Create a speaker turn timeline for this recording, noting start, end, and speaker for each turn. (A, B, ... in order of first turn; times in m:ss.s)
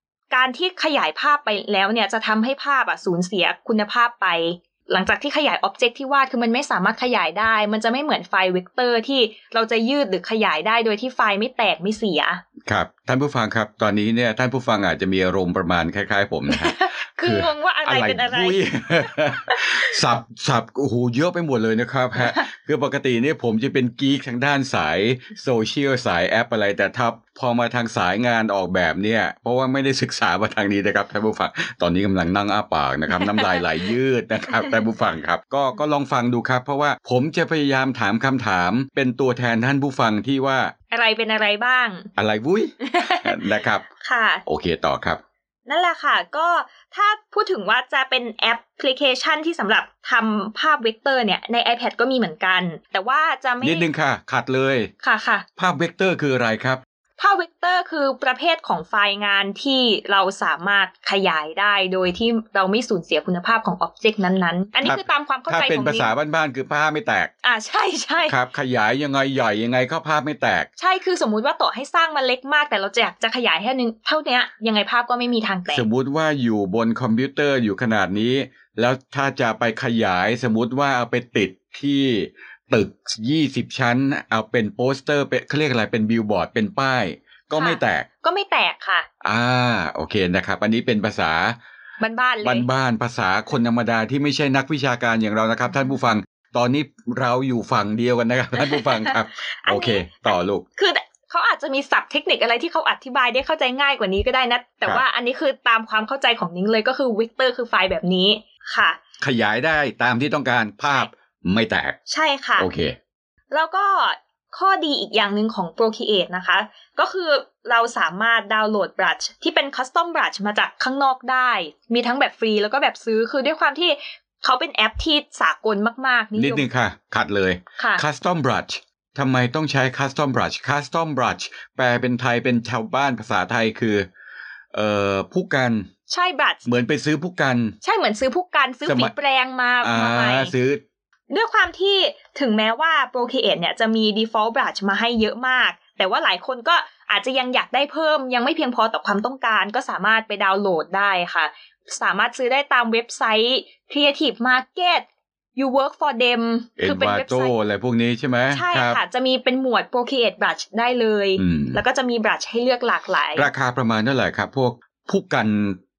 0:00.3-0:12.4 A
0:12.6-0:40.7 B
0:16.5-0:19.9 A
0:22.2-0:22.4 A
0:33.1-0:33.9 A
0:40.9-0:42.1 A
0:42.2-0:43.8 B
0:42.8-0:43.5 A
0:44.0-0:44.4 A
0:44.4-0:45.2 B
0:45.7-0:53.9 A
0:53.6-0:54.9 B
0:55.0-0:55.4 A
0:55.6-0:56.8 B
0:57.2-1:06.1 A
1:04.8-1:07.3 B
1:07.4-1:08.3 A
1:08.3-1:10.7 B
1:10.8-1:15.8 A
1:15.7-1:28.1 B
1:27.5-1:29.1 A
1:29.2-1:31.6 B
1:32.0-1:32.7 A
1:32.4-1:40.6 B
1:38.6-1:49.0 A
1:49.2-1:52.0 B
1:52.1-1:52.7 A
1:52.6-1:53.0 B
1:53.5-2:06.7 A
2:06.4-2:14.1 B
2:07.8-2:08.0 A
2:14.7-2:15.9 B
2:16.1-2:16.6 A
2:16.6-2:17.8 B
2:17.8-2:20.5 A
2:18.8-2:19.1 B
2:19.8-2:20.8 B
2:21.3-2:37.5 A
2:36.8-2:39.0 B
2:38.5-2:43.5 A
2:41.4-2:41.8 B
2:43.4-2:45.8 B